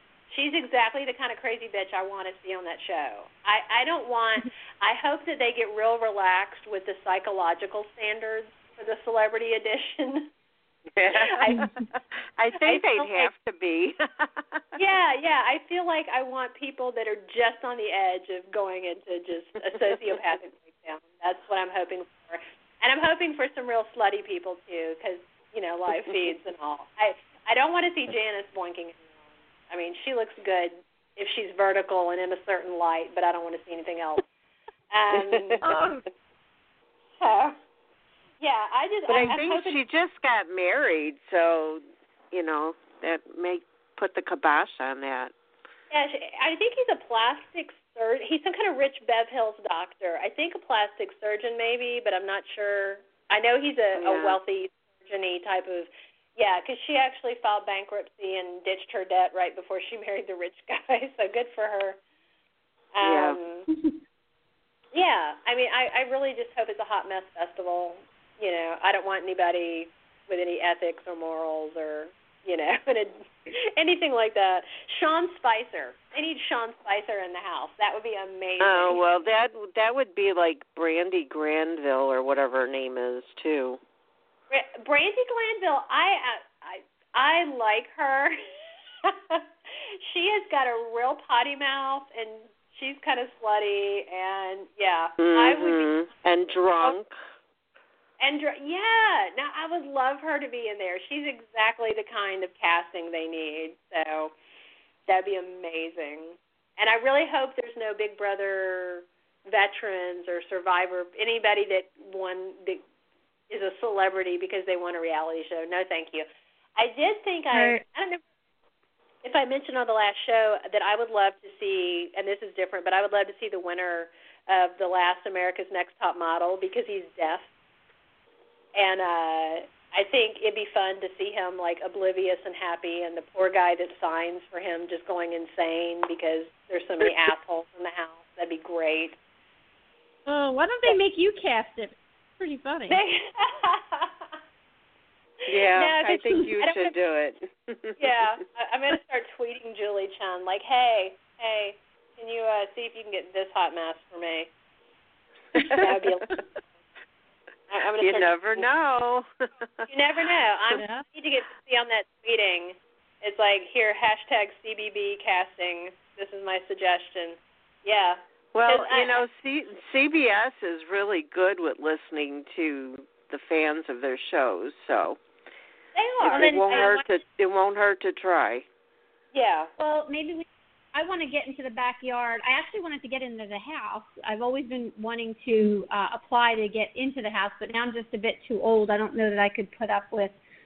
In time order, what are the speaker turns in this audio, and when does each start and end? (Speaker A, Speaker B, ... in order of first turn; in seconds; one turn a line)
Speaker A: 0.3-10.3
Speaker B: 10.9-11.7
Speaker A: 11.1-11.7
Speaker C: 11.5-11.8
Speaker B: 12.3-14.7
Speaker A: 12.6-13.3
Speaker A: 14.8-34.2
Speaker A: 34.9-35.6
Speaker B: 35.5-35.8
Speaker C: 35.6-36.0
Speaker A: 37.2-37.5
Speaker A: 38.4-39.8
Speaker B: 39.1-45.3
Speaker A: 45.9-62.0
Speaker B: 53.9-54.4
Speaker A: 62.9-63.7
Speaker B: 63.0-63.4
Speaker A: 64.9-79.0
Speaker B: 78.6-83.8
Speaker A: 84.5-88.4
Speaker A: 89.0-95.9
Speaker B: 95.2-97.1
Speaker A: 98.2-104.3
Speaker A: 105.1-112.8
Speaker A: 113.5-118.2
Speaker C: 117.5-117.8
Speaker A: 119.2-127.5
Speaker A: 128.7-139.2
Speaker C: 140.2-143.0
Speaker A: 142.9-144.2
Speaker A: 145.5-146.9
Speaker B: 145.5-148.0
Speaker A: 148.0-154.5
Speaker A: 155.5-156.4
Speaker A: 157.7-158.7
Speaker B: 158.0-159.3
Speaker A: 159.9-169.2
Speaker C: 160.7-161.0
Speaker B: 168.5-175.2
Speaker A: 175.9-177.0
Speaker B: 176.2-178.7
Speaker C: 176.3-177.0
Speaker A: 179.3-179.7
Speaker C: 179.8-190.3